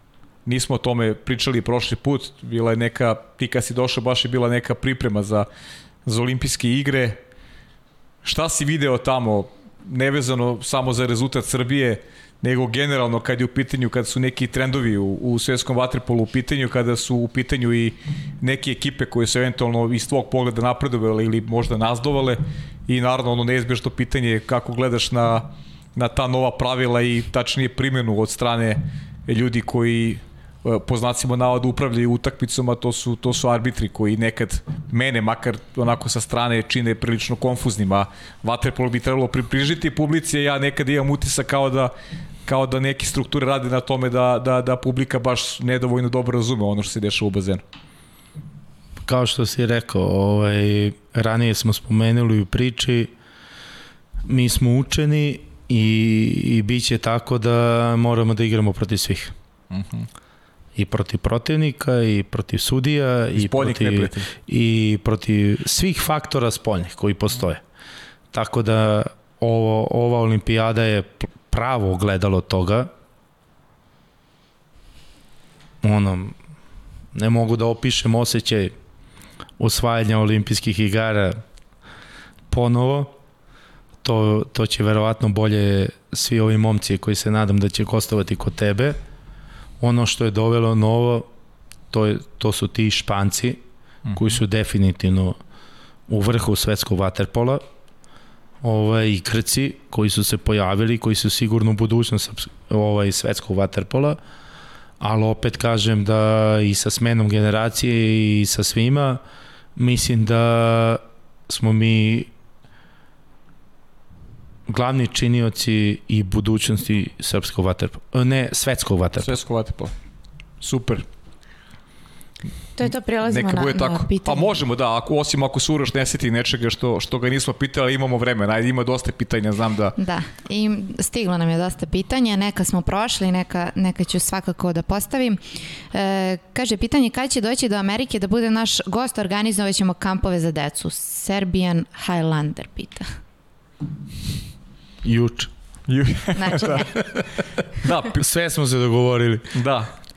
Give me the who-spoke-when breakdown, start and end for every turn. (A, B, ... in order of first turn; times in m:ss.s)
0:00.5-0:05.5 A
0:06.0-0:07.2 A
0:08.2-0:41.9 A
0:42.4-0:47.6 A
0:49.1-0:53.1 B
0:54.3-0:59.3 B
0:59.7-1:00.1 A
1:00.8-1:07.6 B
1:03.4-1:04.3 A
1:08.3-1:12.9 B
1:15.8-1:16.4 B
1:17.2-1:18.7 B
1:19.6-1:21.4 B
1:22.5-1:23.2 B
1:24.0-1:29.0 B
1:29.8-1:31.3 B
1:31.9-1:33.6 B
1:34.1-1:34.4 A
1:34.1-1:35.4 B
1:36.1-1:37.6 B
1:38.6-1:44.2 B
1:45.0-1:49.2 B
1:49.8-1:52.3 B
1:54.7-1:59.4 B
1:59.2-1:59.9 A
2:00.6-2:01.0 A
2:02.8-2:04.6 C
2:03.2-2:10.0 A
2:10.0-2:23.1 C
2:25.0-2:25.5 B
2:25.9-2:27.0 A
2:26.4-2:27.0 C
2:27.8-2:28.2 A
2:28.1-2:29.5 B
2:29.5-2:29.9 A